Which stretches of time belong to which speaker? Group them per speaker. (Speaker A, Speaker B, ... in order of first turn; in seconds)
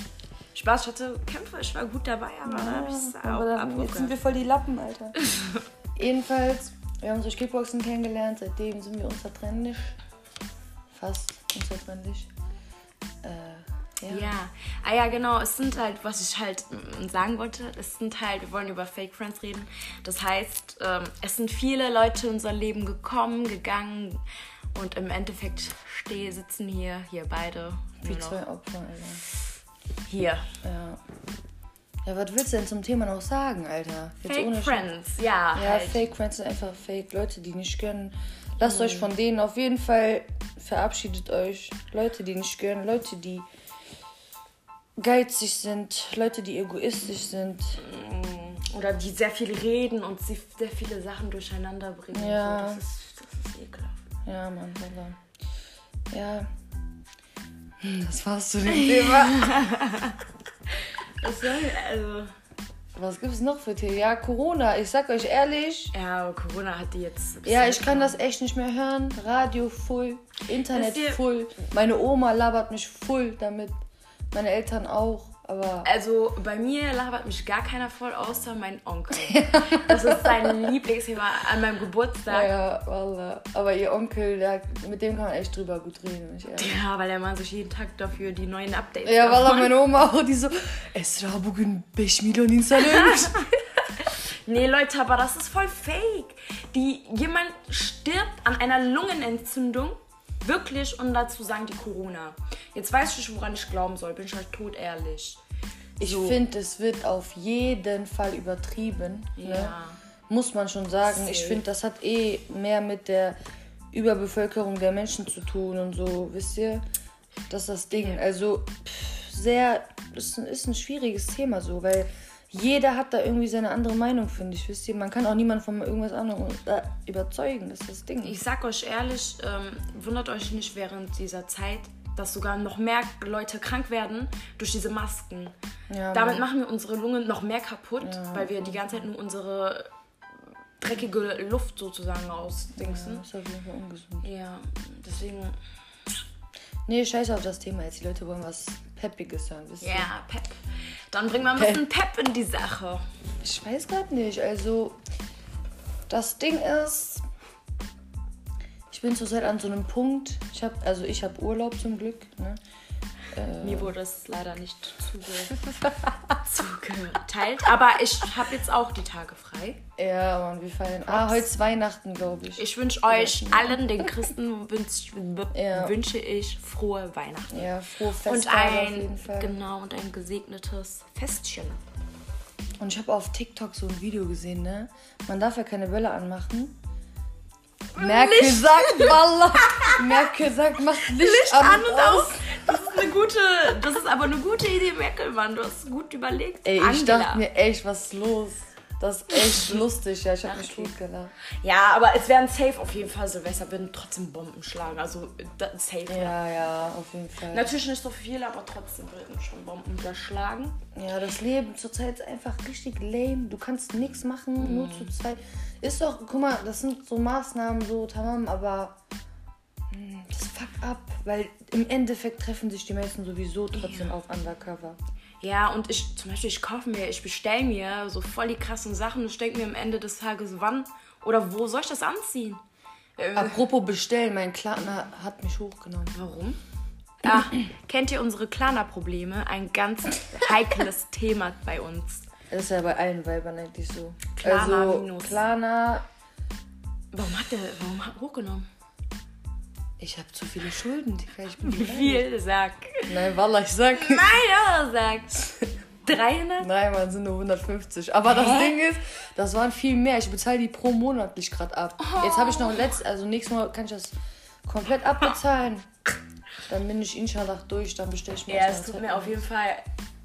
Speaker A: 0.5-4.2, 14.1-28.4, 30.1-30.5, 34.2-36.0, 38.6-39.1, 47.8-54.0, 58.7-60.2, 61.2-62.3, 65.9-68.2, 70.7-71.2, 75.8-82.5, 86.6-89.8, 92.8-105.4, 106.0-106.4, 109.3-110.0, 111.1-111.6, 117.9-118.2, 128.2-135.5, 136.1-139.9, 140.8-143.2, 144.2-145.5, 149.8-150.6, 151.1-153.0, 163.6-165.6, 166.4-169.8, 171.1-171.5, 172.6-177.6, 178.2-181.8, 187.9-190.2, 191.0-197.4, 199.3-199.8, 200.4-200.9, 201.6-206.4, 207.5-210.8, 214.6-215.2, 223.7-224.1, 225.4-232.6, 233.2-233.6, 236.1-236.6, 237.2-242.2, 244.3-245.4, 247.1-248.7, 251.6-253.2, 253.9-256.7, 258.2-258.8, 262.0-263.0, 268.5-269.8
Speaker B: 2.4-5.2, 6.0-9.9, 10.9-12.3, 13.2-14.3, 28.0-29.2, 30.6-31.0, 32.0-34.9, 35.5-43.5, 45.0-47.8, 52.1-52.8, 54.2-55.2, 56.1-56.5, 57.8-59.6, 63.0-65.9, 67.4-73.8, 74.3-75.9, 79.1-80.7, 82.3-86.8, 89.0-93.5, 106.0-109.7, 110.3-113.4, 113.9-116.8, 117.5-128.4, 135.9-136.5, 138.0-139.0, 142.7-144.3, 146.9-150.1, 151.5-151.8, 153.4-155.0, 156.1-157.2, 158.9-162.6, 163.3-163.9, 170.0-174.1, 175.5-176.0, 177.5-179.6, 182.8-186.8, 187.9-192.6, 196.6-201.3, 206.1-207.7, 210.9-219.0, 219.9-225.0, 233.3-236.1, 242.5-246.0, 250.0-252.3, 253.1-254.4, 256.6-264.1, 264.6-265.9, 266.7-269.4